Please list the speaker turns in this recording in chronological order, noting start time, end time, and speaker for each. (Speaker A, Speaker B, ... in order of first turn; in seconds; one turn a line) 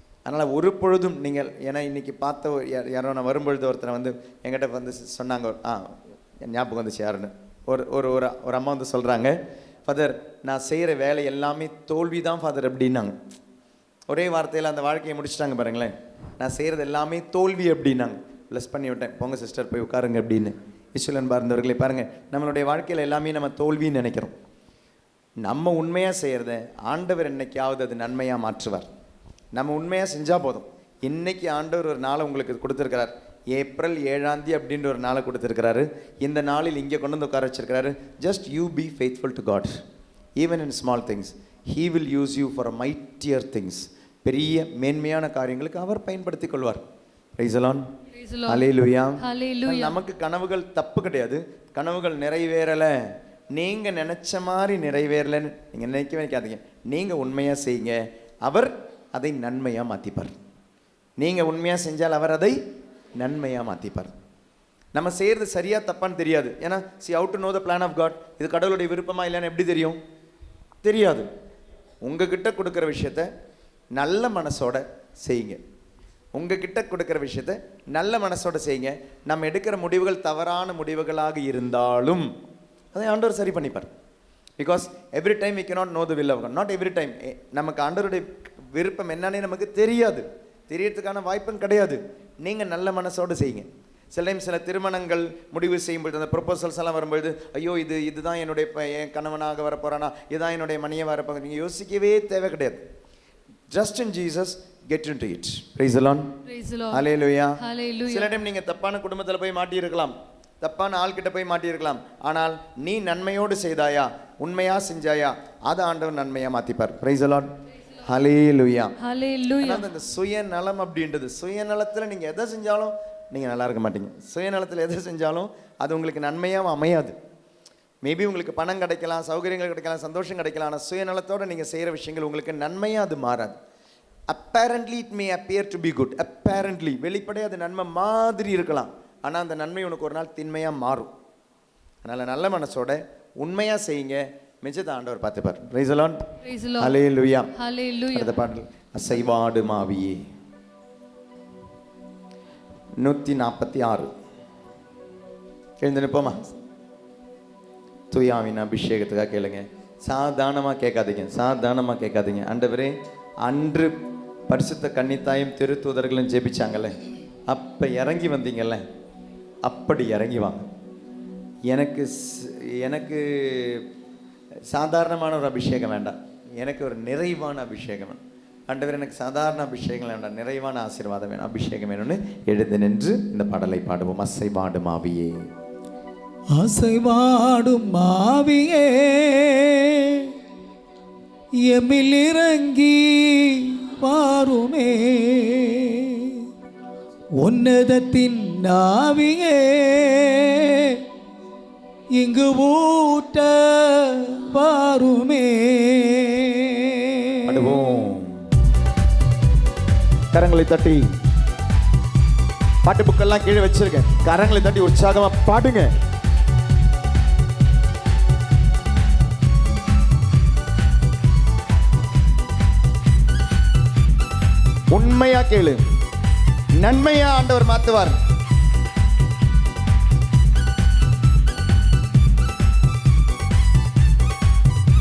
Speaker A: 0.3-13.2
Speaker A: 14.1-24.3
Speaker A: 25.4-28.9
Speaker A: 29.5-39.8
Speaker A: 40.4-46.9
Speaker A: 47.4-47.8
Speaker B: 48.1-48.6
Speaker A: 48.5-53.0
Speaker B: 49.2-50.0
Speaker A: 53.5-60.4
Speaker A: 61.2-62.6
Speaker A: 63.2-64.1
Speaker A: 64.9-70.0
Speaker A: 70.8-71.3
Speaker A: 72.0-73.3
Speaker A: 74.0-75.6
Speaker A: 76.3-82.3
Speaker A: 82.9-83.9
Speaker A: 84.6-102.8
Speaker A: 103.7-106.3
Speaker B: 106.5-107.0
Speaker A: 106.9-117.5
Speaker B: 107.6-108.3
Speaker A: 118.0-119.0
Speaker B: 119.0-119.9
Speaker A: 119.6-127.2
Speaker A: 128.0-133.6
Speaker A: 134.3-141.1
Speaker A: 142.0-146.2
Speaker B: 146.4-146.9
Speaker A: 146.8-147.5
Speaker B: 147.5-148.4
Speaker A: 148.1-150.2
Speaker A: 153.0-154.1
Speaker A: 155.8-156.5
Speaker A: 158.1-163.9
Speaker A: 164.5-166.9
Speaker A: 167.5-168.8
Speaker A: 169.6-170.7
Speaker A: 171.7-173.9
Speaker A: 174.7-185.5
Speaker C: 186.6-190.3
Speaker C: 191.7-196.4
Speaker C: 197.4-201.0
Speaker C: 202.2-207.7
Speaker A: 207.4-208.4
Speaker A: 210.3-211.1
Speaker A: 212.8-215.9
Speaker A: 224.9-225.8
Speaker A: 226.8-228.2